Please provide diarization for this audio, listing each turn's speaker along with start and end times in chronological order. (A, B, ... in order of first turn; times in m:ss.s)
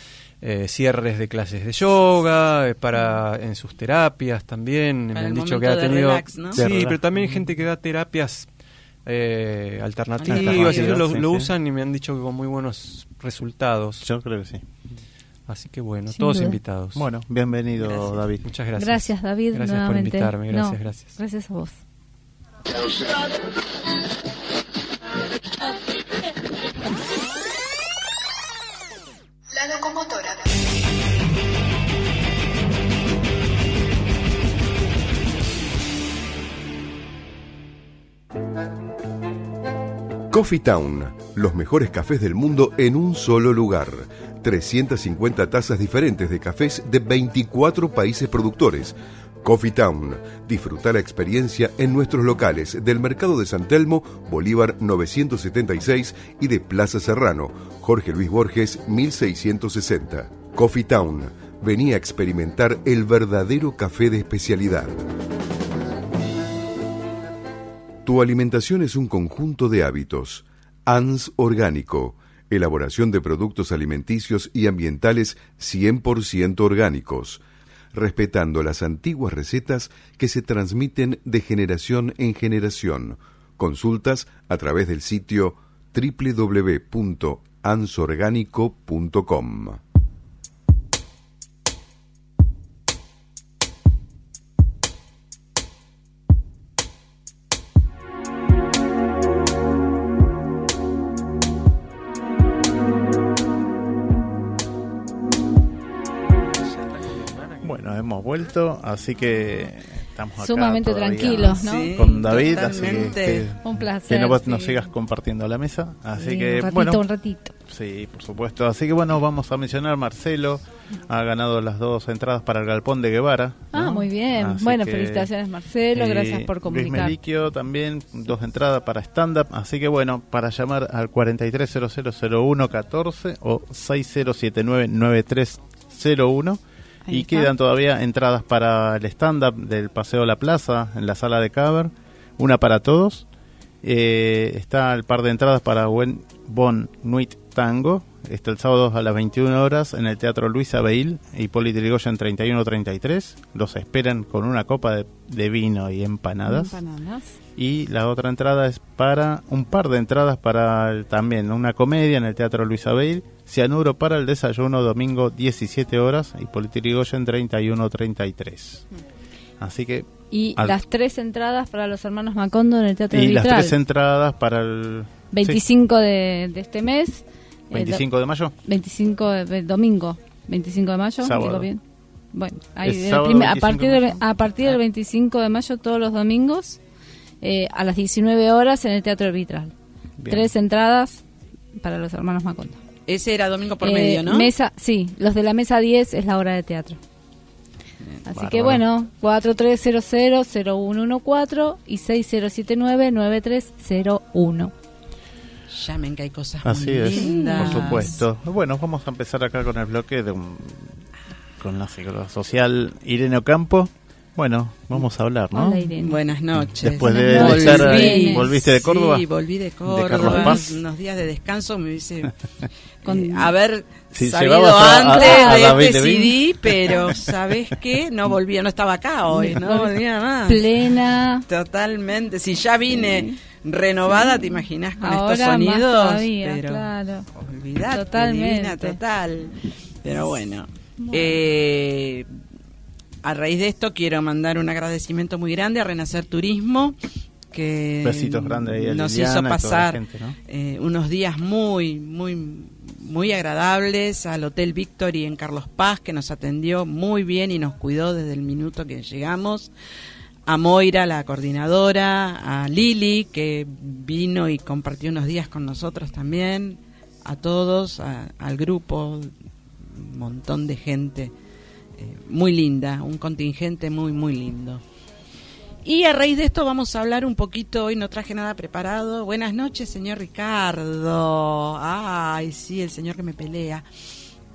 0:00.4-0:08.5 A
0:05.1-0:06.6 B
0:06.5-0:07.4 C
0:09.0-0:14.1 A
0:10.2-0:11.5 C
0:14.0-0:14.6 C
0:15.5-0:17.1 A
0:16.1-0:16.6 D
0:16.9-0:18.4 C
0:17.8-0:21.1 A
0:18.8-0:21.8 D
0:29.5-0:30.4 D
0:40.3-1:05.0 E
1:08.0-1:17.4 E
1:17.9-1:29.8 E
1:46.8-1:47.6 A
1:47.6-1:57.0 C
1:50.4-1:52.0 D
1:51.5-1:53.5 B
1:53.6-1:54.9 D
1:56.1-1:57.5 D
1:57.6-2:05.3 C
2:03.7-2:07.1 D
2:05.9-2:23.3 C
2:17.0-2:17.5 D
2:23.8-2:36.8 C
2:36.4-2:37.4 D
2:37.6-2:48.8 C
2:49.6-2:50.8 C
2:50.3-2:53.7 D
2:53.1-2:55.6 C
2:55.3-2:58.0 D
2:57.7-2:58.5 C
2:58.6-3:01.8 D
3:01.2-3:01.7 C
3:02.3-3:06.8 D
3:02.8-3:04.2 C
3:07.4-3:09.7 D
3:10.2-3:10.5 C
3:10.3-3:11.2 D
3:11.8-3:12.8 D
3:13.1-3:14.5 B
3:13.8-3:17.0 D
3:18.3-3:24.7 D
3:18.3-3:18.8 C
3:25.7-3:28.1 B
3:26.6-3:31.0 C
3:27.1-3:28.2 D
3:31.6-3:35.9 C
3:35.5-3:36.2 D
3:36.0-3:42.3 B
3:36.6-3:39.2 C
3:37.0-3:38.5 D
3:39.8-3:40.8 C
3:40.2-3:40.6 D
3:43.0-3:50.8 B
3:43.0-3:43.5 D
3:44.1-3:47.3 C
3:45.0-3:45.8 D
3:49.3-3:51.5 D
3:51.5-4:02.3 B
3:52.9-3:53.4 D
3:54.2-3:57.3 D
3:57.9-3:59.0 D
4:03.2-4:07.0 B
4:07.5-4:19.7 B
4:08.0-4:10.4 C
4:20.5-4:31.3 B
4:32.0-4:34.8 B
4:35.8-4:43.8 B